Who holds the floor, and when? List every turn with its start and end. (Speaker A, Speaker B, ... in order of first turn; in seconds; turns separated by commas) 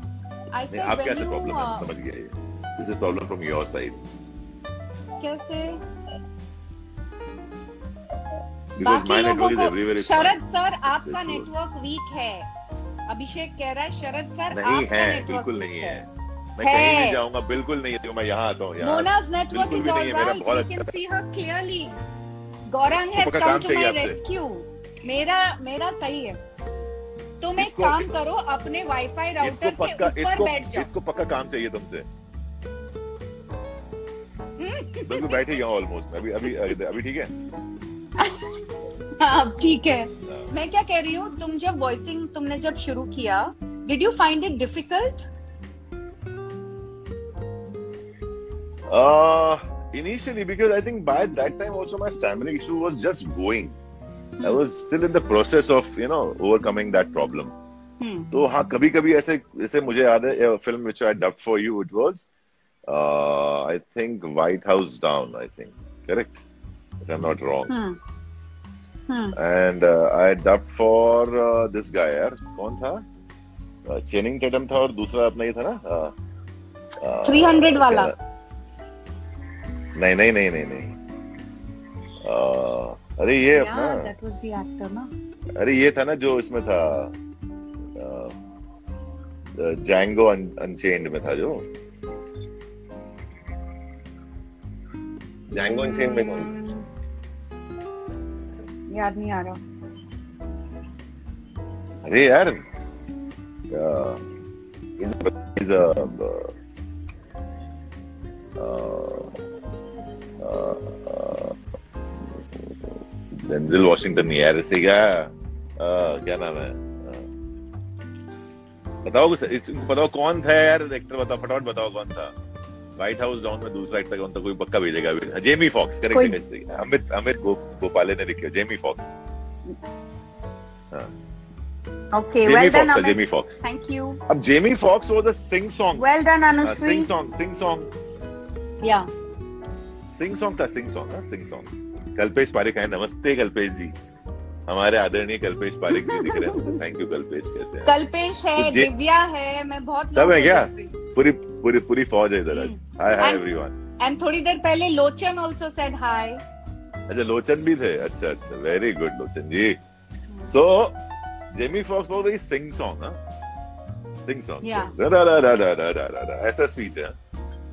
Speaker A: 0.5-1.9, Speaker B: 0.7-4.0, Speaker A: 5.2-5.8, Speaker B: 8.8-10.4, Speaker A: 8.8-12.5, Speaker B: 10.9-11.5, Speaker A: 13.1-16.0, Speaker B: 14.5-20.9, Speaker A: 16.6-17.2, Speaker A: 18.8-22.0, Speaker A: 22.7-26.4, Speaker B: 23.2-24.2, Speaker A: 27.4-30.9, Speaker B: 27.6-28.1, Speaker B: 29.4-32.1, Speaker A: 34.6-35.4, Speaker B: 35.0-37.3, Speaker A: 38.2-38.5, Speaker A: 39.2-45.3, Speaker B: 48.9-53.8, Speaker B: 54.4-57.5, Speaker A: 58.0-58.3, Speaker B: 58.3-62.3, Speaker B: 62.9-66.5, Speaker B: 67.0-67.7, Speaker A: 67.7-68.0, Speaker A: 69.1-69.4, Speaker B: 69.3-73.1, Speaker B: 73.9-76.1, Speaker B: 77.0-78.2, Speaker A: 77.2-78.1, Speaker B: 80.0-80.9, Speaker B: 82.2-84.1, Speaker A: 83.5-85.1, Speaker B: 85.6-87.1, Speaker B: 88.0-88.3, Speaker B: 89.6-91.7, Speaker B: 95.5-96.5, Speaker A: 95.6-96.9, Speaker A: 98.9-99.6, Speaker B: 102.0-102.6, Speaker B: 103.7-104.2, Speaker B: 105.0-106.5, Speaker B: 108.6-109.3, Speaker B: 110.4-111.6, Speaker B: 112.2-117.3, Speaker B: 119.0-122.3, Speaker B: 123.0-129.2, Speaker A: 126.1-126.4, Speaker A: 132.1-134.2, Speaker B: 132.4-133.6, Speaker B: 134.3-136.1, Speaker A: 136.0-137.1, Speaker B: 136.6-137.9, Speaker A: 138.8-139.1, Speaker B: 140.1-143.9, Speaker B: 144.7-147.9, Speaker A: 145.9-146.8, Speaker A: 147.8-151.0, Speaker B: 148.6-148.9, Speaker B: 150.1-153.7, Speaker A: 152.5-153.4, Speaker A: 154.0-156.4, Speaker B: 157.1-159.8, Speaker B: 160.5-161.0, Speaker B: 161.5-163.2, Speaker B: 164.3-167.2, Speaker A: 164.6-164.9